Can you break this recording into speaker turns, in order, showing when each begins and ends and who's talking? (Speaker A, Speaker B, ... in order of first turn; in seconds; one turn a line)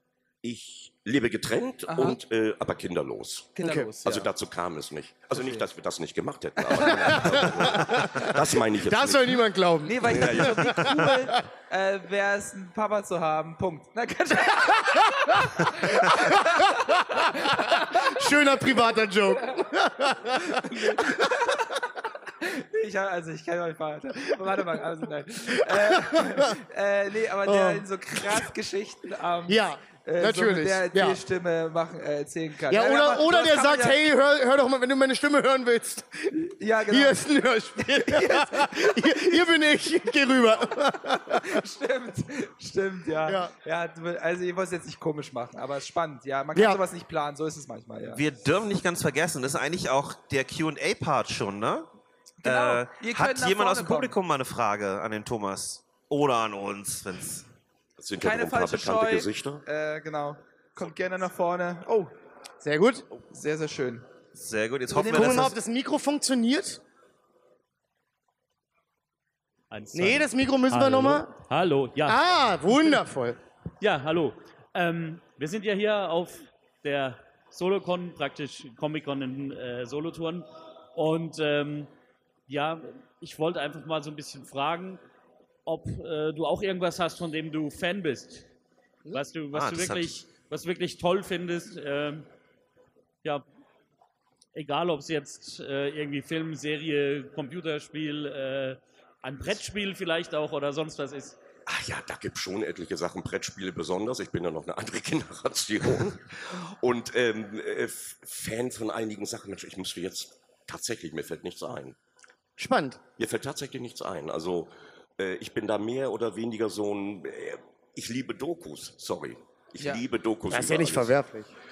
Speaker A: 0.4-9.4
Speaker B: 1.9-2.2
Speaker B: 3.6-4.3
Speaker B: 5.3-5.7
Speaker B: 6.7-7.3
Speaker C: 7.0-11.4
Speaker B: 9.8-18.2
Speaker A: 10.0-11.1
Speaker C: 15.9-21.3
Speaker B: 20.4-21.7
Speaker B: 22.4-34.0
Speaker C: 25.6-26.6
Speaker C: 27.5-27.9
Speaker C: 29.5-31.2
Speaker C: 32.7-36.3
Speaker B: 36.3-37.3
Speaker C: 36.9-41.6
Speaker B: 37.8-39.4
Speaker B: 41.2-48.2
Speaker C: 43.3-43.5
Speaker C: 46.5-46.8
Speaker D: 48.1-51.9
Speaker B: 52.4-54.1
Speaker D: 52.4-57.5
Speaker A: 58.0-59.6
Speaker B: 58.2-62.1
Speaker C: 62.6-63.1
Speaker B: 63.3-64.1
Speaker D: 64.3-65.5
Speaker B: 64.9-65.5
Speaker C: 65.1-66.8
Speaker E: 69.7-72.2
Speaker C: 69.9-71.3
Speaker C: 72.0-73.4
Speaker E: 73.8-81.9
Speaker E: 82.5-85.0
Speaker E: 85.7-88.5
Speaker E: 89.1-92.3
Speaker D: 89.5-90.2
Speaker E: 94.5-101.4
Speaker A: 101.7-112.0
Speaker C: 112.6-113.0
Speaker A: 113.2-121.2
Speaker C: 120.5-121.5